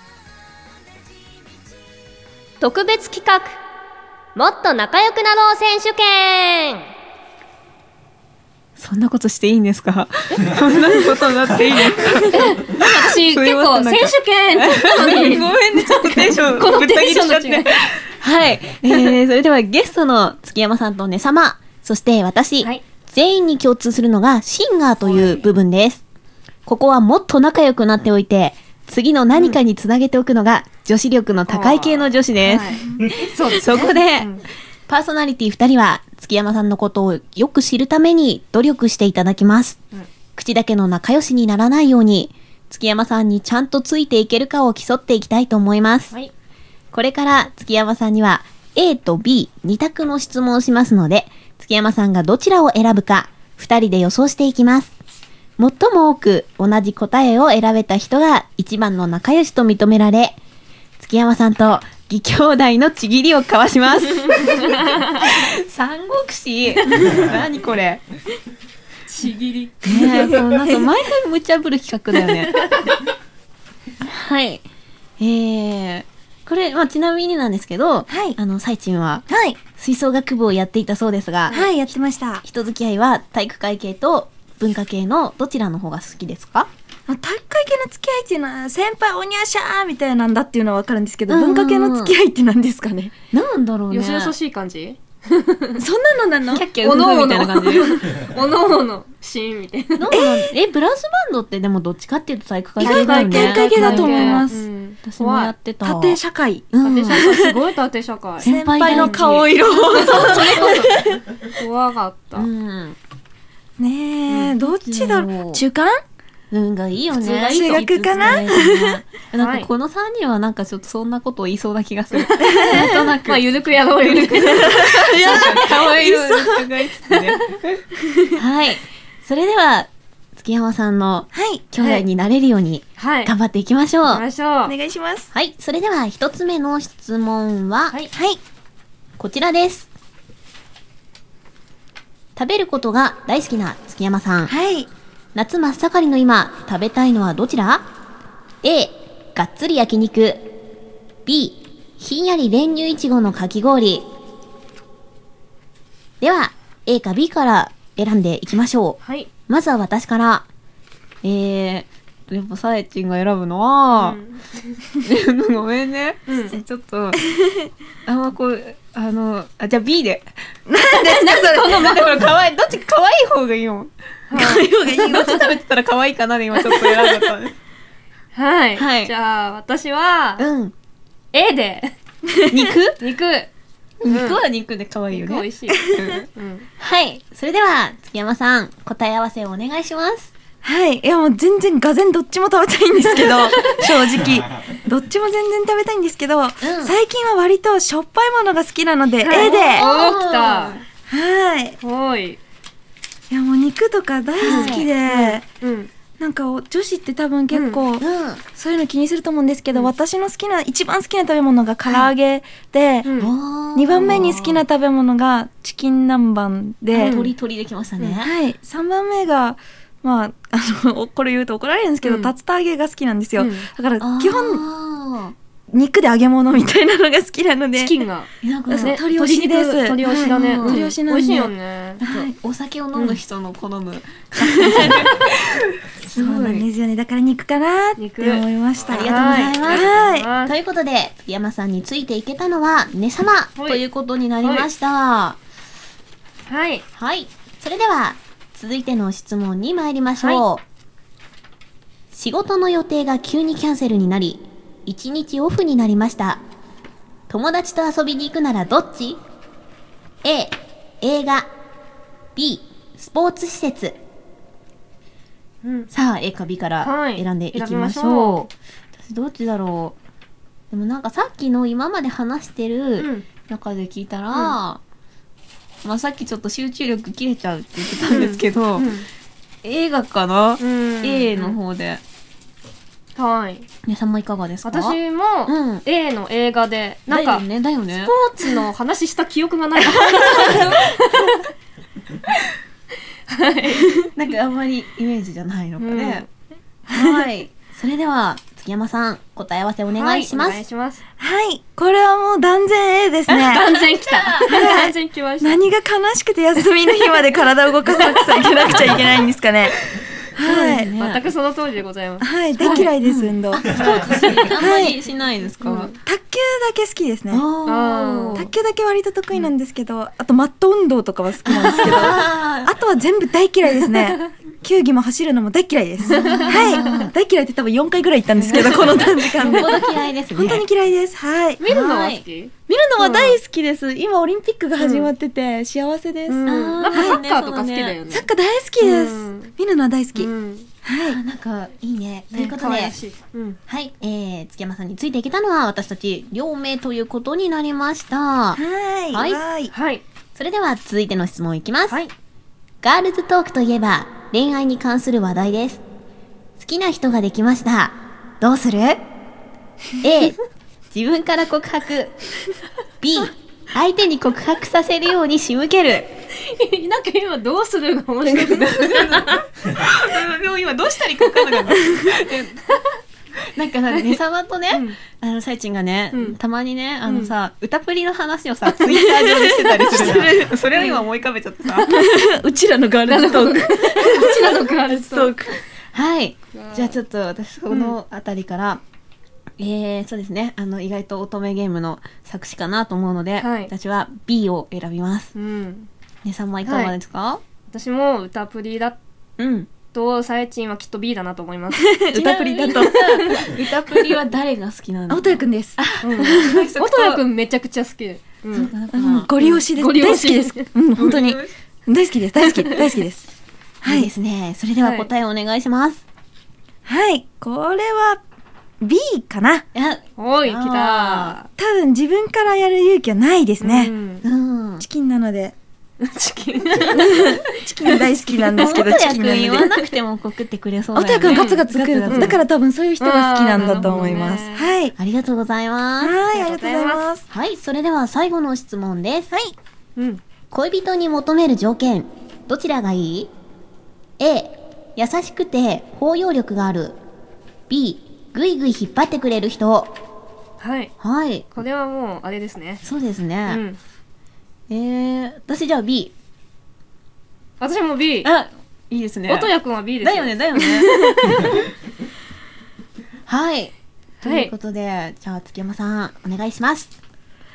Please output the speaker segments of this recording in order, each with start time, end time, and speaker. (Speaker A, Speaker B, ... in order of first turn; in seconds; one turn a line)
Speaker A: 2.6-3.6
Speaker A: 4.3-6.9
Speaker B: 8.8-26.0
Speaker A: 12.3-17.8
Speaker A: 25.1-25.4
Speaker B: 26.7-39.8
Speaker A: 31.5-34.4
Speaker B: 40.4-46.1
Speaker B: 46.9-54.9
Speaker B: 55.6-60.4
Speaker B: 61.0-68.0
Speaker A: 64.6-65.2
Speaker A: 69.1-70.4
Speaker C: 69.9-70.9
Speaker B: 69.9-72.7
Speaker A: 72.6-72.9
Speaker B: 74.0-74.6
Speaker B: 75.2-81.6
Speaker C: 78.1-78.4
Speaker C: 79.3-79.6
Speaker C: 81.5-82.4
Speaker B: 82.5-86.7
Speaker C: 87.1-93.1
Speaker B: 91.3-92.2
Speaker B: 93.3-94.3
Speaker A: 93.9-95.8
Speaker C: 95.8-96.7
Speaker B: 96.5-98.0
Speaker A: 96.8-100.2
Speaker B: 100.0-104.5
Speaker C: 100.1-100.5
Speaker C: 102.8-104.7
Speaker A: 102.8-105.5
Speaker B: 105.0-106.2
Speaker C: 105.8-107.6
Speaker B: 106.7-107.2
Speaker A: 106.8-112.5
Speaker B: 108.4-110.8
Speaker C: 108.4-111.2
Speaker B: 112.3-113.0
Speaker C: 113.8-116.0
Speaker B: 114.7-115.6
Speaker B: 116.5-127.8
Speaker A: 117.2-118.4
Speaker C: 117.4-119.0
Speaker A: 119.4-119.7
Speaker A: 122.1-125.8
Speaker C: 122.4-123.1
Speaker C: 124.5-126.7
Speaker C: 128.1-128.3
Speaker B: 128.4-134.2
Speaker C: 131.3-131.7
Speaker A: 131.8-132.0
Speaker A: 133.0-133.3
Speaker A: 134.1-134.8
Speaker C: 134.7-135.3
Speaker B: 135.3-137.9
Speaker C: 138.1-138.4
Speaker B: 139.2-139.9
Speaker B: 142.4-144.5
Speaker C: 144.5-144.9
Speaker B: 145.3-147.8
Speaker B: 148.6-150.4
Speaker B: 151.3-154.1
Speaker B: 156.2-160.5
Speaker A: 159.0-159.3
Speaker B: 161.2-164.2
Speaker A: 163.9-164.8
Speaker B: 165.0-167.2
Speaker A: 166.3-166.6
Speaker C: 167.2-167.7
Speaker B: 168.1-170.3
Speaker C: 170.7-172.2
Speaker B: 170.9-173.9
Speaker A: 174.3-175.3
Speaker C: 174.3-175.5
Speaker B: 175.0-177.6
Speaker A: 176.6-177.1
Speaker A: 178.3-180.4
Speaker B: 178.8-179.1
Speaker B: 180.4-180.7
Speaker A: 181.3-181.9
Speaker C: 182.3-182.7
Speaker B: 182.5-183.0
Speaker A: 183.0-183.5
Speaker B: 184.0-186.2
Speaker A: 184.1-184.4
Speaker A: 185.1-186.7
Speaker B: 186.8-190.3
Speaker C: 190.6-199.9
Speaker A: 193.2-193.8
Speaker B: 196.6-196.9
Speaker A: 199.2-200.8
Speaker B: 199.3-200.8
Speaker C: 201.1-201.8
Speaker A: 201.8-202.4
Speaker C: 203.3-205.4
Speaker B: 204.4-204.9
Speaker A: 204.4-205.9
Speaker C: 206.2-213.1
Speaker A: 207.5-207.8
Speaker B: 208.0-208.4
Speaker A: 213.1-213.3
Speaker B: 213.2-214.6
Speaker C: 213.8-217.2
Speaker A: 216.9-217.3
Speaker B: 216.9-218.3
Speaker C: 218.2-224.6
Speaker A: 222.0-222.3
Speaker A: 223.4-223.7
Speaker B: 224.0-225.3
Speaker C: 225.7-228.0
Speaker A: 227.8-232.0
Speaker B: 228.4-229.0
Speaker C: 228.7-231.5
Speaker B: 230.1-230.8
Speaker B: 232.0-236.7
Speaker C: 232.0-232.3
Speaker C: 234.4-235.1
Speaker C: 236.1-240.3
Speaker A: 238.0-240.6
Speaker B: 238.9-245.4
Speaker A: 243.6-243.8
Speaker A: 244.4-244.7
Speaker A: 246.5-246.8
Speaker B: 247.0-250.6
Speaker A: 250.2-250.4
Speaker B: 252.1-256.4
Speaker B: 257.3-259.2
Speaker B: 260.2-261.5
Speaker B: 262.4-264.0
Speaker A: 265.6-265.9
Speaker B: 265.9-270.0
Speaker A: 266.8-268.5
Speaker B: 270.7-274.8
Speaker A: 273.0-273.3
Speaker A: 274.3-274.6
Speaker B: 275.8-278.9
Speaker A: 278.1-279.1
Speaker B: 279.6-282.0
Speaker A: 280.6-281.6
Speaker A: 283.2-283.7
Speaker B: 283.9-285.8
Speaker A: 284.6-291.4
Speaker B: 287.1-288.1
Speaker C: 290.2-290.6
Speaker B: 290.4-290.7
Speaker A: 293.3-294.1
Speaker B: 294.1-296.3
Speaker A: 295.8-296.3
Speaker B: 296.9-300.6
Speaker C: 296.9-297.3
Speaker A: 300.0-301.0
Speaker C: 301.2-303.7
Speaker A: 303.3-305.6
Speaker B: 303.6-304.7
Speaker C: 304.5-309.8
Speaker A: 307.9-308.5
Speaker C: 310.4-310.9
Speaker B: 310.4-311.3
Speaker A: 310.5-312.9
Speaker C: 312.2-313.7
Speaker B: 312.6-315.9
Speaker A: 313.7-314.6
Speaker C: 314.6-315.0
Speaker A: 315.6-315.9
Speaker C: 316.0-317.4
Speaker B: 317.3-318.5
Speaker A: 317.7-318.4
Speaker C: 318.4-331.6
Speaker B: 321.4-322.7
Speaker B: 326.0-327.1
Speaker A: 326.1-327.1
Speaker B: 328.4-330.6
Speaker A: 329.4-329.8
Speaker A: 331.6-333.4
Speaker B: 331.6-332.2
Speaker C: 332.7-337.2
Speaker A: 334.8-335.1
Speaker A: 336.3-338.3
Speaker B: 336.5-338.0
Speaker C: 338.1-340.3
Speaker A: 338.8-339.5
Speaker A: 340.2-340.7
Speaker C: 340.8-341.2
Speaker B: 341.1-343.0
Speaker A: 342.3-343.6
Speaker B: 343.7-348.6
Speaker C: 348.6-349.7
Speaker B: 349.1-349.4
Speaker A: 349.7-350.0
Speaker B: 350.4-352.0
Speaker B: 352.8-355.8
Speaker B: 356.6-359.0
Speaker B: 360.0-360.4
Speaker B: 360.9-362.1
Speaker B: 363.0-366.1
Speaker A: 366.3-369.4
Speaker B: 368.2-372.6
Speaker A: 371.2-371.6
Speaker B: 373.5-381.9
Speaker A: 374.7-375.0
Speaker A: 377.1-377.3
Speaker C: 378.9-380.6
Speaker A: 380.7-381.0
Speaker A: 381.7-382.0
Speaker C: 381.9-385.6
Speaker A: 383.1-385.3
Speaker B: 385.9-388.8
Speaker A: 386.5-387.0
Speaker A: 387.7-388.0
Speaker B: 389.6-395.3
Speaker A: 393.4-393.7
Speaker A: 395.4-395.9
Speaker B: 396.2-397.4
Speaker A: 396.6-396.9
Speaker A: 397.7-399.0
Speaker B: 399.4-399.7
Speaker A: 399.9-401.9
Speaker C: 401.8-403.1
Speaker B: 402.1-407.2
Speaker A: 402.8-403.4
Speaker C: 405.1-406.7
Speaker A: 406.0-408.7
Speaker B: 408.5-409.3
Speaker C: 408.9-413.3
Speaker A: 409.4-410.7
Speaker B: 411.0-411.5
Speaker C: 413.8-414.1
Speaker B: 413.9-416.0
Speaker A: 414.8-415.1
Speaker C: 416.9-418.2
Speaker C: 418.8-419.6
Speaker B: 419.7-421.4
Speaker A: 420.2-421.5
Speaker C: 421.6-423.9
Speaker A: 423.6-424.2
Speaker B: 424.2-424.8
Speaker C: 424.8-425.6
Speaker A: 426.0-428.1
Speaker C: 426.9-429.7
Speaker B: 428.6-432.4
Speaker C: 430.9-435.0
Speaker A: 431.2-432.4
Speaker A: 433.0-434.7
Speaker B: 433.6-434.3
Speaker B: 435.0-436.2
Speaker C: 436.0-437.3
Speaker A: 436.3-437.0
Speaker B: 437.3-439.3
Speaker A: 440.0-440.2
Speaker B: 440.5-443.3
Speaker B: 444.2-447.0
Speaker B: 447.7-449.9
Speaker A: 450.6-450.9
Speaker B: 451.0-451.5
Speaker A: 451.5-452.8
Speaker B: 452.8-453.6
Speaker A: 453.5-453.8
Speaker B: 454.7-456.1
Speaker A: 457.6-458.3
Speaker B: 458.2-461.2
Speaker A: 459.3-461.6
Speaker B: 463.3-466.9
Speaker A: 464.2-464.5